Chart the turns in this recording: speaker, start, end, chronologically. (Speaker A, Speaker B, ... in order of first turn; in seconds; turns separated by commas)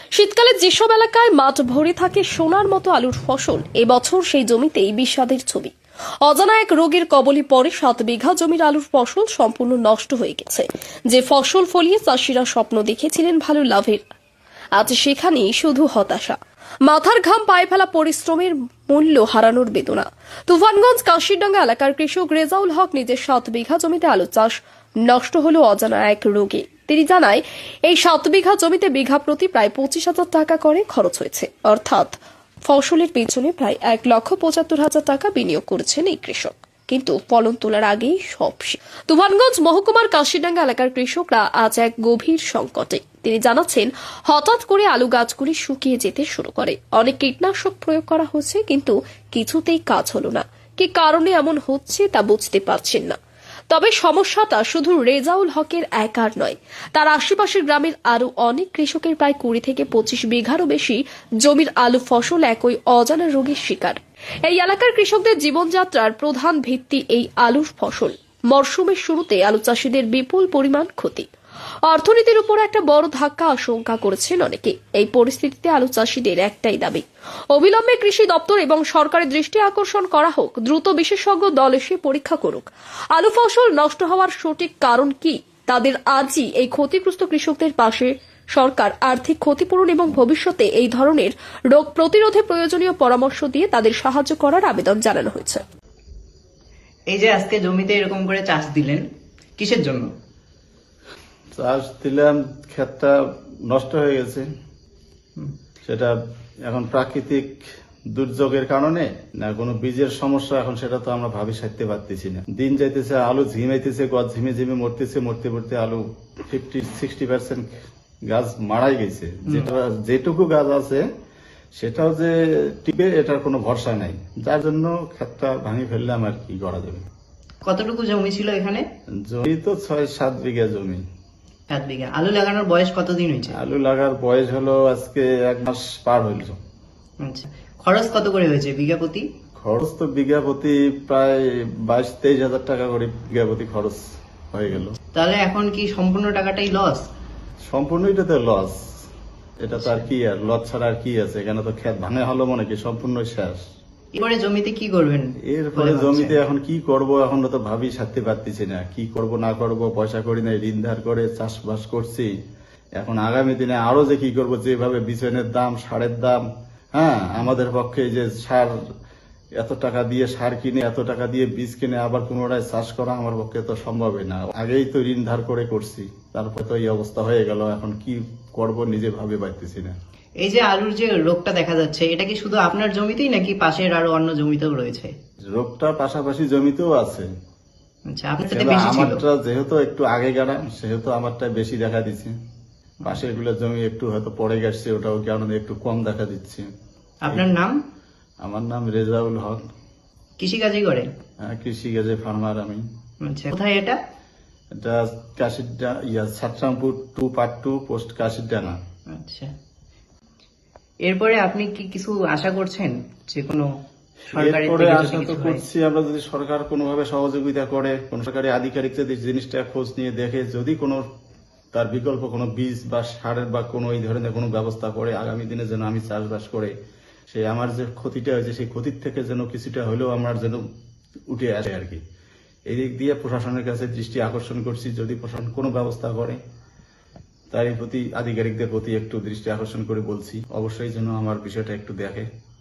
Speaker A: 0.1-5.7, Speaker A: 6.2-14.0, Speaker A: 14.8-53.2, Speaker A: 53.7-71.3, Speaker A: 71.9-95.6, Speaker B: 97.1-99.0, Speaker B: 99.6-100.1, Speaker C: 101.5-103.2, Speaker C: 103.7-104.5, Speaker C: 105.9-106.1, Speaker C: 106.7-107.6, Speaker C: 108.1-117.7, Speaker C: 118.3-121.0, Speaker C: 121.8-127.0, Speaker B: 127.6-128.8, Speaker C: 129.2-131.0, Speaker B: 131.7-133.6, Speaker C: 133.5-136.6, Speaker B: 137.2-139.2, Speaker C: 139.6-144.0, Speaker C: 144.5-145.0, Speaker B: 145.1-147.0, Speaker C: 147.7-148.8, Speaker C: 149.6-153.6, Speaker B: 149.8-150.1, Speaker B: 154.2-156.4, Speaker C: 155.4-162.3, Speaker C: 163.0-166.4, Speaker C: 166.9-168.7, Speaker C: 169.6-179.9, Speaker B: 180.4-185.1, Speaker C: 185.5-187.3, Speaker B: 188.1-189.2, Speaker C: 188.5-192.3, Speaker C: 193.0-196.7, Speaker B: 197.2-197.8, Speaker C: 197.3-197.5, Speaker C: 198.4-199.6, Speaker B: 200.4-201.1, Speaker C: 201.4-202.8, Speaker B: 203.2-204.0, Speaker C: 204.8-208.8, Speaker B: 209.1-209.5, Speaker B: 211.1-213.7, Speaker C: 214.3-221.0, Speaker B: 214.3-215.6, Speaker C: 221.7-226.7, Speaker C: 227.3-230.6, Speaker C: 231.3-232.0, Speaker C: 232.7-236.4, Speaker C: 237.5-242.2